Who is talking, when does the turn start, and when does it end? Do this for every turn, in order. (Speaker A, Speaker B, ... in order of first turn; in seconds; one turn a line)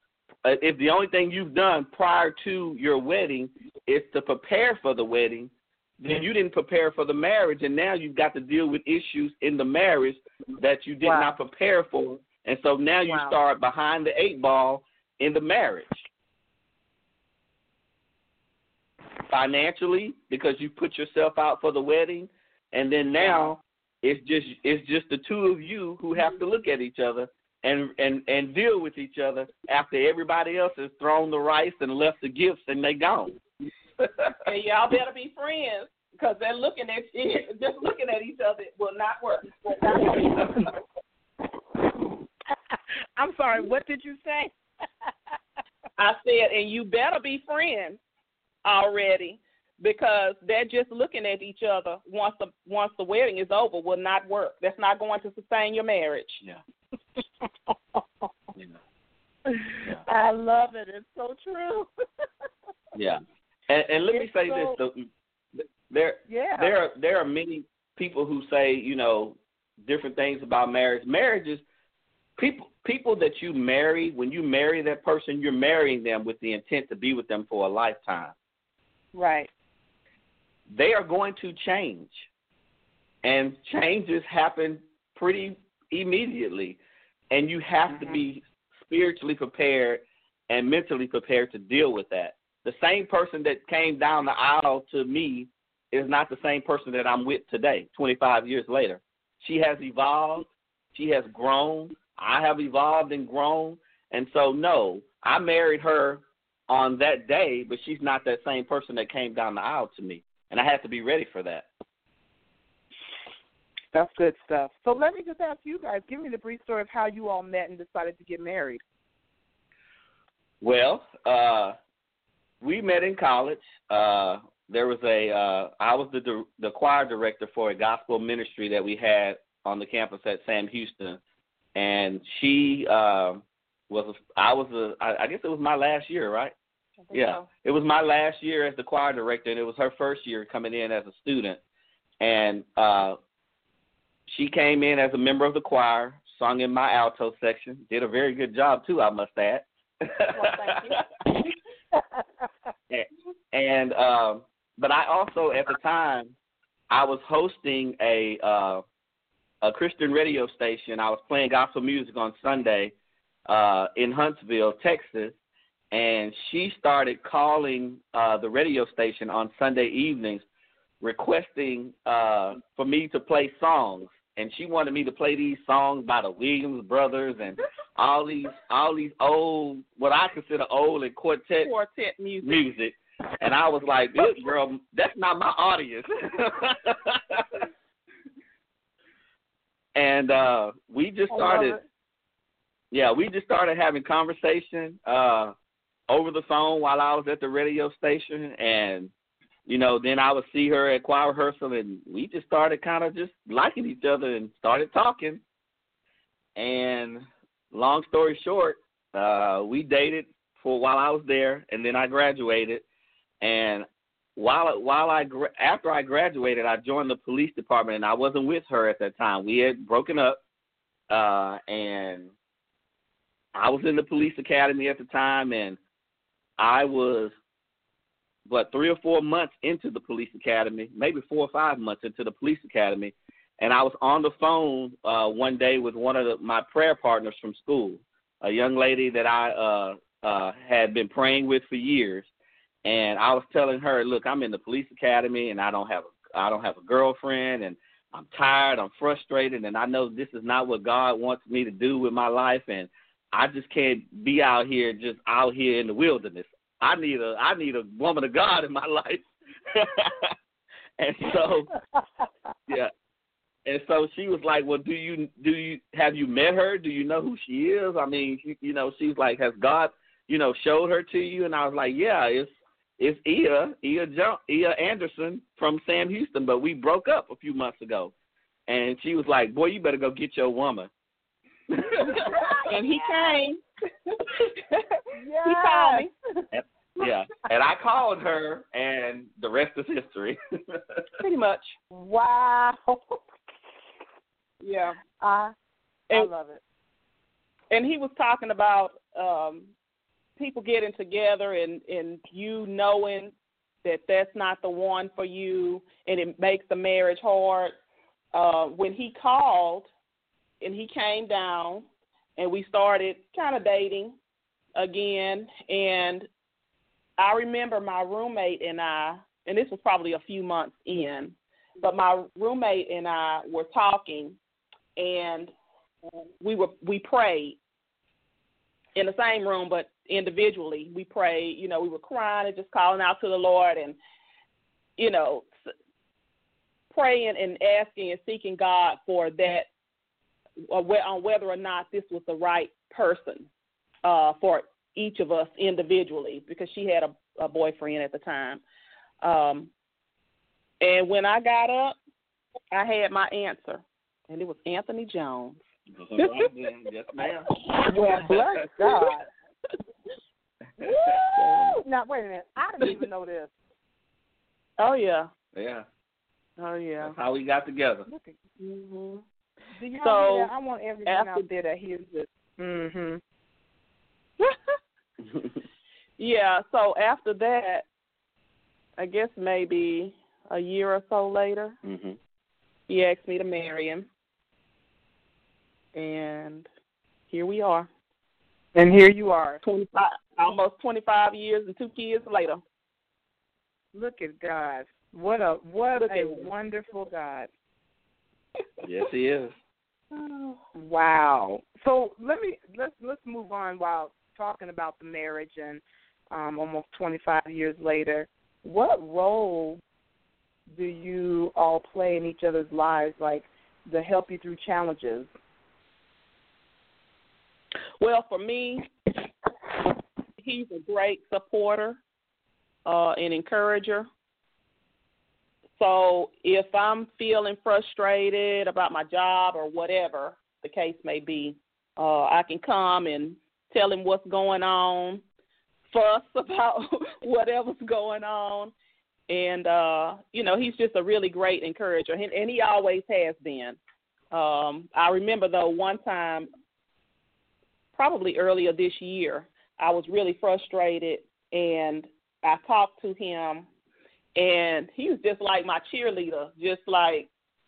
Speaker A: 0.4-16.1
Speaker B: 11.0-11.3
Speaker B: 13.1-13.3
Speaker A: 19.3-33.4
Speaker B: 23.2-23.5
Speaker C: 34.4-40.6
Speaker B: 43.2-44.5
Speaker C: 46.0-48.0
Speaker C: 48.6-56.4
Speaker B: 57.7-58.0
Speaker B: 59.5-61.9
Speaker A: 62.9-71.6
Speaker B: 64.1-64.8
Speaker B: 66.3-66.7
Speaker A: 72.4-78.3
Speaker B: 79.1-79.5
Speaker A: 80.7-82.2
Speaker A: 83.2-86.8
Speaker A: 87.3-111.7
Speaker B: 113.9-118.8
Speaker A: 120.6-121.8
Speaker A: 122.6-131.2
Speaker A: 131.8-136.5
Speaker A: 137.1-141.6
Speaker A: 142.2-143.2
Speaker A: 144.3-150.9
Speaker C: 150.3-151.0
Speaker A: 152.9-156.3
Speaker A: 156.9-158.8
Speaker A: 159.6-162.9
Speaker A: 163.5-165.3
Speaker A: 165.9-170.4
Speaker A: 171.0-181.7
Speaker C: 181.6-182.6
Speaker A: 182.4-187.6
Speaker A: 189.9-191.8
Speaker B: 191.3-191.8
Speaker A: 192.9-195.5
Speaker A: 196.1-199.1
Speaker A: 199.7-205.4
Speaker A: 206.6-212.8
Speaker A: 213.4-213.8
Speaker A: 214.3-220.4
Speaker A: 221.1-222.3
Speaker A: 223.5-225.8
Speaker A: 226.6-227.3
Speaker A: 228.5-242.3
Speaker A: 242.8-260.3
Speaker A: 261.0-261.7
Speaker A: 263.6-278.1
Speaker A: 278.7-280.9
Speaker A: 281.7-282.1
Speaker B: 282.2-283.4
Speaker C: 282.7-283.6
Speaker B: 285.1-286.1
Speaker C: 285.4-286.1
Speaker A: 286.5-291.0
Speaker C: 291.2-291.7
Speaker B: 291.9-293.2
Speaker C: 294.6-295.0
Speaker B: 295.2-295.5
Speaker B: 296.1-296.6
Speaker C: 297.7-299.7
Speaker C: 300.4-303.3
Speaker C: 303.8-307.7
Speaker C: 308.3-309.9
Speaker C: 310.6-311.9
Speaker C: 312.4-314.1
Speaker C: 314.7-316.3
Speaker C: 317.2-324.4
Speaker C: 325.0-325.5
Speaker C: 326.4-327.6
Speaker C: 328.9-334.0
Speaker C: 335.0-335.5
Speaker C: 336.9-339.7
Speaker C: 340.7-343.5
Speaker C: 344.0-348.6
Speaker C: 349.2-349.7
Speaker C: 350.8-351.9
Speaker C: 352.7-355.6
Speaker A: 356.0-357.5
Speaker B: 357.7-359.2
Speaker B: 360.8-363.5
Speaker A: 361.4-361.6
Speaker C: 364.8-365.3
Speaker A: 365.5-365.8
Speaker C: 366.6-367.1
Speaker A: 367.0-368.1
Speaker B: 368.1-368.3
Speaker C: 368.6-369.2
Speaker B: 369.8-373.2
Speaker C: 370.0-370.5
Speaker C: 371.1-371.4
Speaker A: 375.2-375.6
Speaker C: 376.2-377.9
Speaker C: 379.0-381.7
Speaker A: 381.8-382.2
Speaker C: 382.9-384.1
Speaker C: 385.9-386.7
Speaker C: 387.3-387.9
Speaker B: 388.7-389.6
Speaker C: 389.6-392.6
Speaker B: 393.9-397.5
Speaker C: 396.1-396.4
Speaker A: 398.8-399.5
Speaker C: 400.1-400.6
Speaker B: 400.7-409.8
Speaker B: 410.7-415.3
Speaker C: 418.0-418.9
Speaker C: 420.4-422.0
Speaker C: 422.8-424.1
Speaker C: 425.8-435.2
Speaker C: 435.9-438.7
Speaker C: 439.3-443.8
Speaker C: 444.3-446.5
Speaker C: 447.9-453.7
Speaker C: 454.4-457.3